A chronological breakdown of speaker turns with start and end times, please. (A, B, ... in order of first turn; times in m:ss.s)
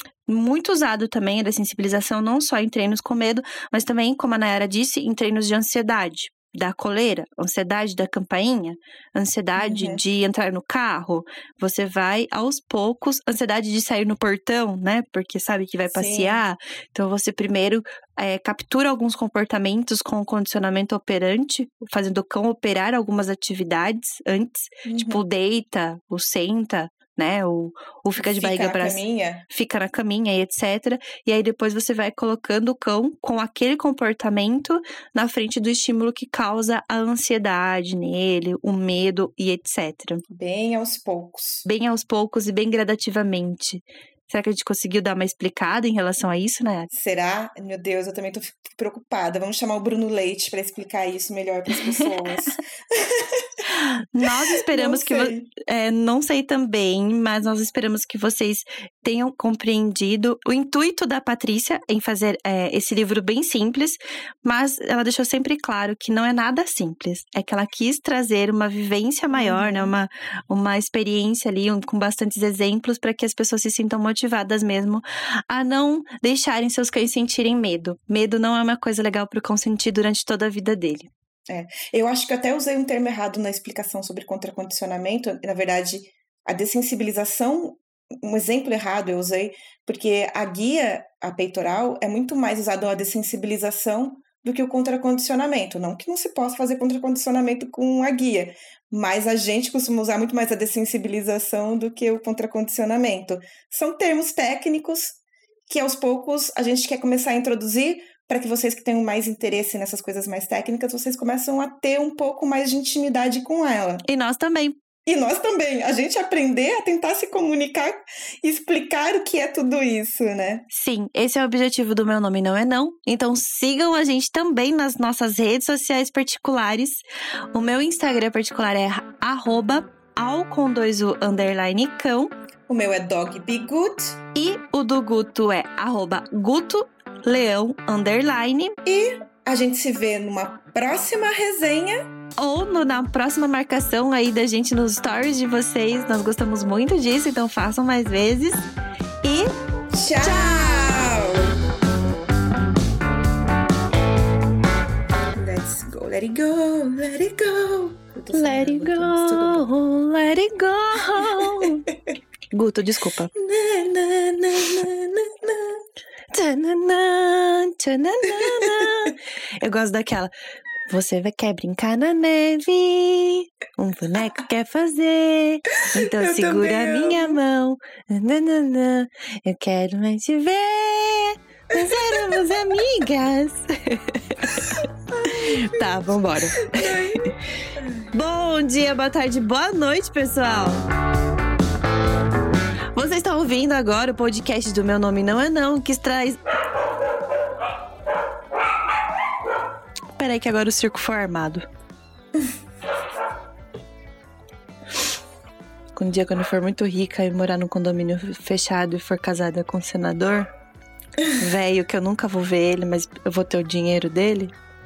0:00.3-0:40.2 A
0:09.6-0:10.0 B
0:15.9-0:16.4 B
0:24.8-0:25.2 B
0:28.2-0:29.4 B
0:40.3-0:41.6 B
0:41.6-0:46.9 A
0:46.9-0:53.7 B
0:53.7-1:21.1 A
0:54.2-0:55.5 B
1:09.3-1:09.9 B
1:21.5-1:45.2 B
1:45.7-1:54.0 B
1:54.0-1:54.8 A
1:55.0-2:00.6 B
2:00.7-2:12.3 A
2:12.7-2:14.2 B
2:14.3-2:18.8 A
2:18.8-2:22.0 B
2:22.4-2:28.7 A
2:29.2-2:29.5 A
2:29.9-2:31.6 B
2:30.2-2:31.0 A
2:35.3-2:39.7 B
2:38.3-2:41.9 A
2:41.1-2:41.9 B
2:42.5-2:43.3 A
2:43.3-2:45.8 B
2:46.3-2:50.3 A
2:48.3-2:49.1 B
2:50.9-3:07.1 A
2:55.8-2:57.4 B
3:01.7-3:02.8 B
3:05.2-3:05.6 B
3:06.6-3:08.0 B
3:08.1-3:10.9 A
3:13.0-3:16.4 A
3:20.2-3:21.6 A
3:26.0-3:30.5 A
3:31.3-3:34.6 A